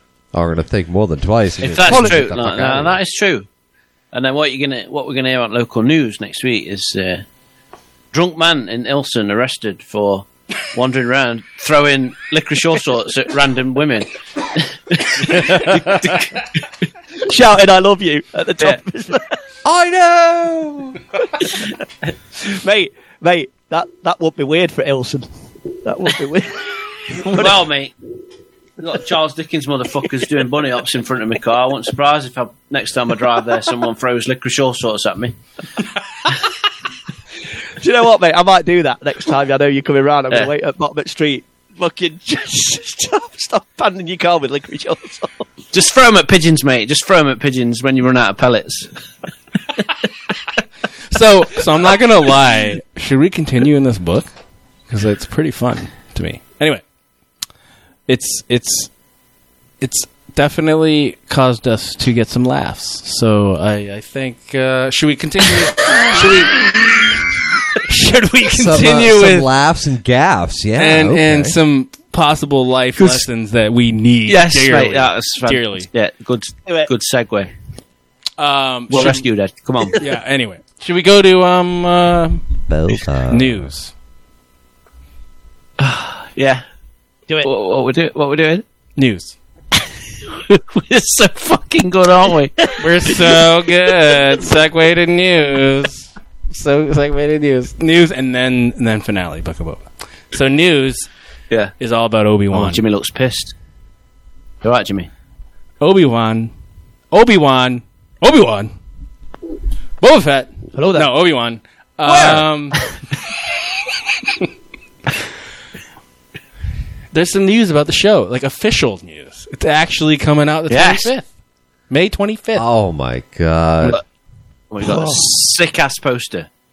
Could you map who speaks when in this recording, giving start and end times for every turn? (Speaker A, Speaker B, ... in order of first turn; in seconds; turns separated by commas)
Speaker A: 0.3-3.0, Speaker B: 1.6-3.5, Speaker C: 1.9-2.2, Speaker B: 4.1-7.2, Speaker B: 8.1-16.5, Speaker A: 15.3-16.0, Speaker C: 17.2-19.3, Speaker A: 19.6-21.0, Speaker C: 22.4-25.3, Speaker C: 25.8-27.5, Speaker B: 27.2-27.9, Speaker B: 28.8-35.4, Speaker C: 37.8-45.4, Speaker B: 45.7-48.9, Speaker D: 51.1-54.3, Speaker D: 54.9-56.8, Speaker D: 58.1-58.9, Speaker D: 59.8-67.1, Speaker D: 67.8-69.5, Speaker A: 68.5-71.6, Speaker D: 70.8-75.9, Speaker B: 74.3-77.5, Speaker D: 78.4-79.2, Speaker B: 78.9-80.0, Speaker D: 80.0-82.4, Speaker A: 82.7-83.7, Speaker D: 83.3-83.9, Speaker B: 85.8-86.6, Speaker B: 87.4-88.6, Speaker D: 89.0-89.3, Speaker B: 90.3-92.7, Speaker D: 92.8-101.1, Speaker D: 101.8-102.8, Speaker B: 102.5-103.5, Speaker B: 104.6-105.1, Speaker D: 105.8-106.5, Speaker D: 107.1-108.7, Speaker D: 110.0-112.8, Speaker C: 110.7-111.1, Speaker B: 112.1-112.4, Speaker D: 117.1-121.3, Speaker B: 120.7-121.1, Speaker D: 121.9-122.7, Speaker A: 122.5-124.0, Speaker B: 124.7-126.5, Speaker C: 124.8-125.3